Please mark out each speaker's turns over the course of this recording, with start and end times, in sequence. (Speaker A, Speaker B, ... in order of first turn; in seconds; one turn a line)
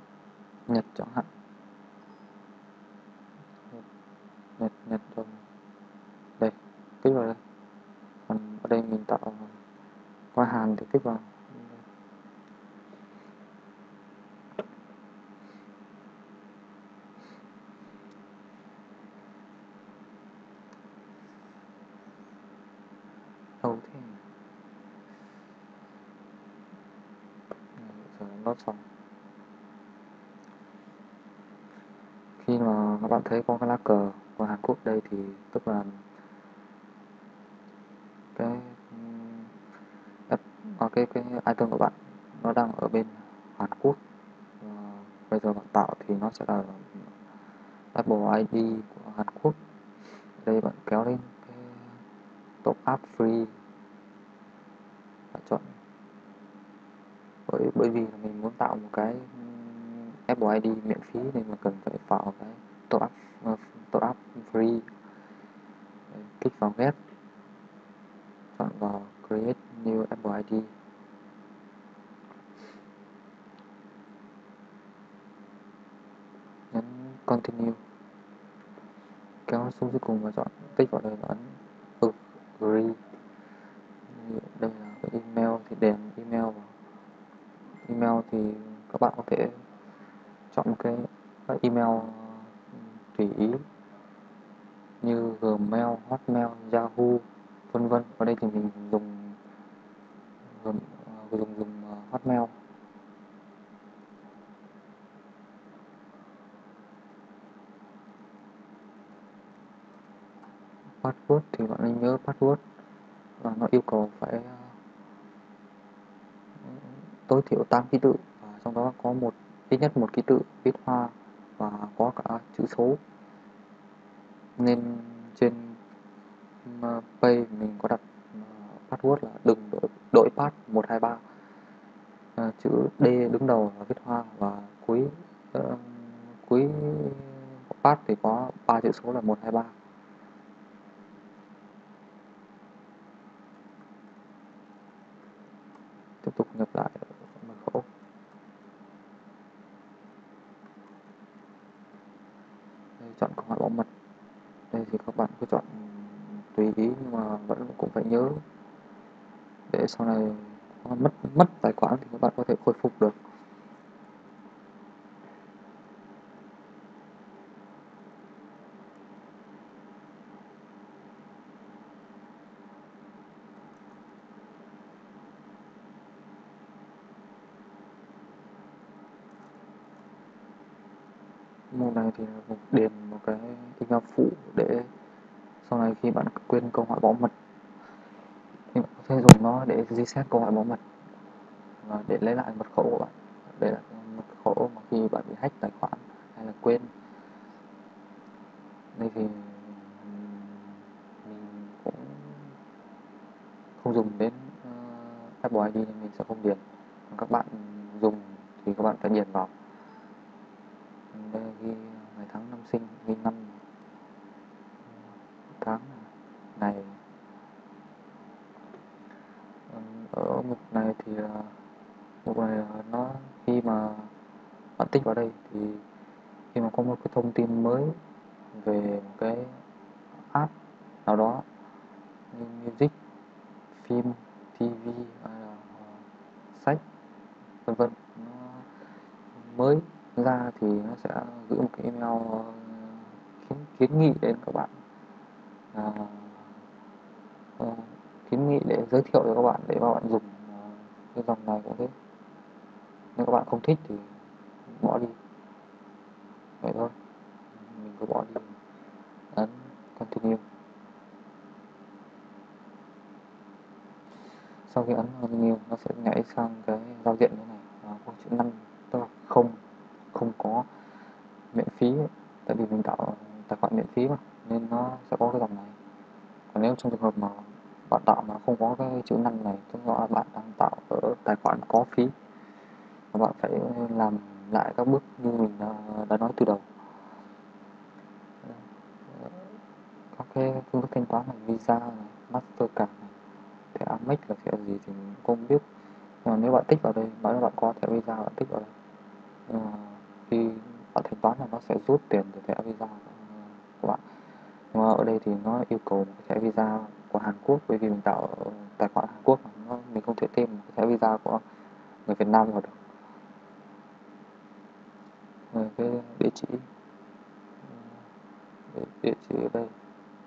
Speaker A: 0.7-1.3
Speaker A: 4.6-5.4
Speaker A: 6.4-7.4
Speaker A: 8.3-9.6
Speaker A: 10.3-11.8
Speaker A: 23.6-24.2
Speaker A: 27.8-28.8
Speaker A: 32.4-36.0
Speaker A: 38.4-39.5
Speaker A: 40.3-44.0
Speaker A: 44.6-47.1
Speaker A: 47.9-49.6
Speaker A: 50.4-52.0
Speaker A: 52.6-53.5
Speaker A: 55.3-55.7
Speaker A: 57.5-64.8
Speaker A: 66.1-67.0
Speaker A: 68.5-70.7
Speaker A: 76.7-77.8
Speaker A: 79.5-83.0
Speaker A: 84.1-86.7
Speaker A: 87.8-89.6
Speaker A: 90.5-93.6
Speaker A: 95.0-99.4
Speaker A: 100.5-102.5
Speaker A: 111.0-112.6
Speaker A: 113.4-114.7
Speaker A: 116.6-123.0
Speaker A: 124.6-125.8
Speaker A: 126.6-131.2
Speaker A: 132.3-139.7
Speaker A: 146.2-147.9
Speaker A: 153.0-153.9
Speaker A: 154.7-158.4
Speaker A: 159.7-163.2
Speaker A: 181.7-184.9
Speaker A: 185.6-187.3
Speaker A: 188.7-190.8
Speaker A: 191.8-196.9
Speaker A: 198.9-202.5
Speaker A: 203.8-209.5
Speaker A: 211.1-213.6
Speaker A: 215.5-217.0
Speaker A: 219.7-221.5
Speaker A: 222.2-224.1
Speaker A: 224.8-225.8
Speaker A: 226.5-228.0
Speaker A: 228.5-229.6
Speaker A: 231.0-231.4
Speaker A: 232.3-232.9
Speaker A: 233.8-236.8
Speaker A: 237.6-238.7
Speaker A: 239.3-244.7
Speaker A: 245.7-246.6
Speaker A: 247.6-251.9
Speaker A: 253.2-254.1
Speaker A: 254.7-255.2
Speaker A: 256.6-256.9
Speaker A: 257.5-258.6
Speaker A: 259.3-260.4
Speaker A: 264.7-269.6
Speaker A: 270.1-270.7
Speaker A: 271.5-275.8
Speaker A: 276.5-282.1
Speaker A: 283.1-286.7
Speaker A: 288.4-289.6
Speaker A: 290.1-293.1
Speaker A: 293.7-295.6
Speaker A: 296.2-298.7
Speaker A: 299.5-304.0
Speaker A: 304.7-311.4
Speaker A: 312.1-312.8
Speaker A: 315.5-316.7
Speaker A: 317.6-317.9
Speaker A: 318.7-319.7